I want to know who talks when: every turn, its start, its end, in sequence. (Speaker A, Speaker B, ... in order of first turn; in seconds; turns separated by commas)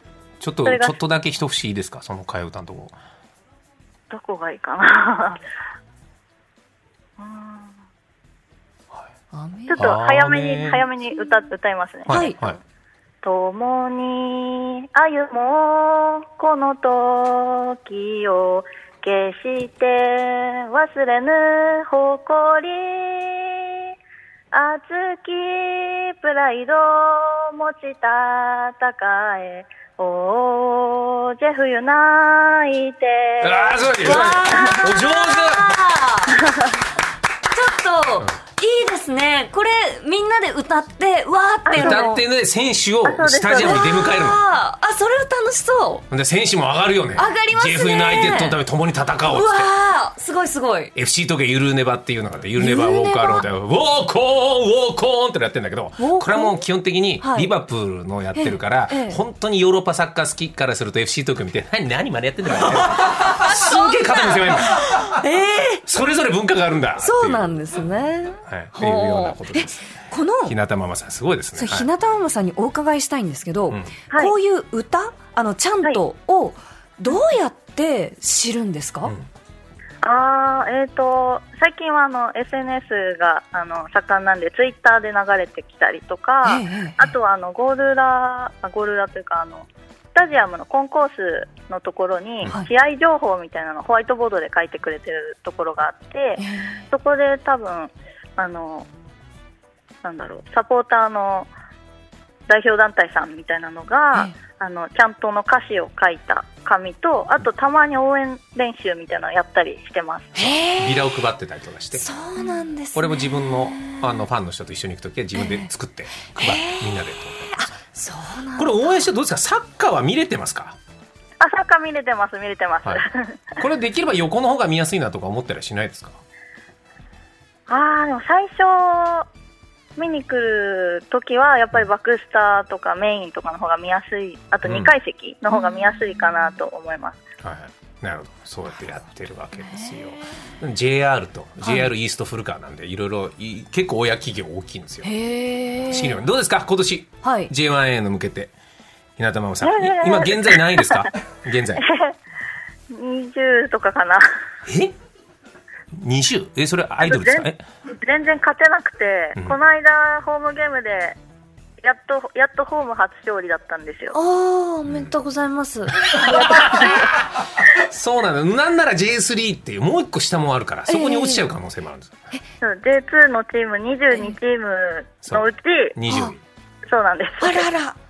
Speaker A: 0.4-2.9, Speaker B: 0.6-0.9, Speaker B: 4.1-5.4, Speaker B: 7.2-7.7, Speaker C: 9.3-9.9, Speaker B: 9.7-12.6, Speaker A: 9.7-10.8, Speaker A: 12.1-12.6, Speaker C: 12.1-12.4, Speaker B: 13.2-23.9, Speaker B: 24.5-34.8, Speaker A: 33.4-35.8, Speaker C: 34.0-36.4, Speaker B: 36.4-36.7, Speaker C: 37.5-42.2, Speaker A: 41.7-44.4, Speaker B: 43.0-44.0, Speaker C: 43.5-46.0, Speaker A: 46.1-49.7, Speaker C: 47.1-48.6, Speaker C: 49.3-50.9, Speaker A: 50.9-65.1, Speaker C: 52.6-53.5, Speaker C: 56.0-56.6, Speaker C: 57.2-57.5, Speaker C: 58.3-59.2, Speaker C: 62.9-65.8, Speaker A: 65.8-67.5, Speaker C: 67.0-70.5, Speaker A: 68.5-69.8, Speaker A: 70.5-71.9, Speaker C: 71.5-79.1, Speaker B: 80.0-98.9, Speaker C: 86.4-87.1, Speaker C: 96.4-96.8, Speaker B: 100.0-101.5, Speaker B: 102.5-110.3, Speaker C: 110.3-111.0, Speaker A: 110.4-112.1, Speaker C: 112.0-114.2, Speaker A: 112.9-117.7, Speaker C: 115.3-115.7, Speaker C: 116.3-117.0, Speaker C: 117.5-119.0, Speaker A: 118.6-120.8, Speaker B: 121.4-123.6, Speaker A: 123.6-126.2, Speaker B: 127.7-129.3, Speaker B: 130.0-137.2, Speaker A: 134.6-134.9, Speaker C: 135.5-136.1, Speaker A: 137.4-145.1, Speaker C: 139.6-139.9, Speaker C: 141.6-141.9, Speaker C: 145.0-146.2, Speaker A: 145.9-148.5, Speaker C: 147.2-147.5, Speaker A: 149.2-151.8, Speaker B: 149.6-151.1, Speaker B: 151.8-152.1, Speaker B: 152.9-154.3, Speaker A: 154.7-154.9, Speaker A: 155.9-157.6, Speaker B: 157.0-157.4, Speaker B: 158.0-161.2, Speaker B: 161.8-164.2, Speaker C: 164.1-166.8, Speaker A: 164.9-165.1, Speaker A: 166.0-172.1, Speaker B: 166.1-167.1, Speaker C: 170.9-171.5, Speaker B: 172.6-175.9, Speaker A: 175.9-176.4, Speaker C: 176.1-176.3, Speaker B: 176.9-177.7, Speaker C: 177.4-178.0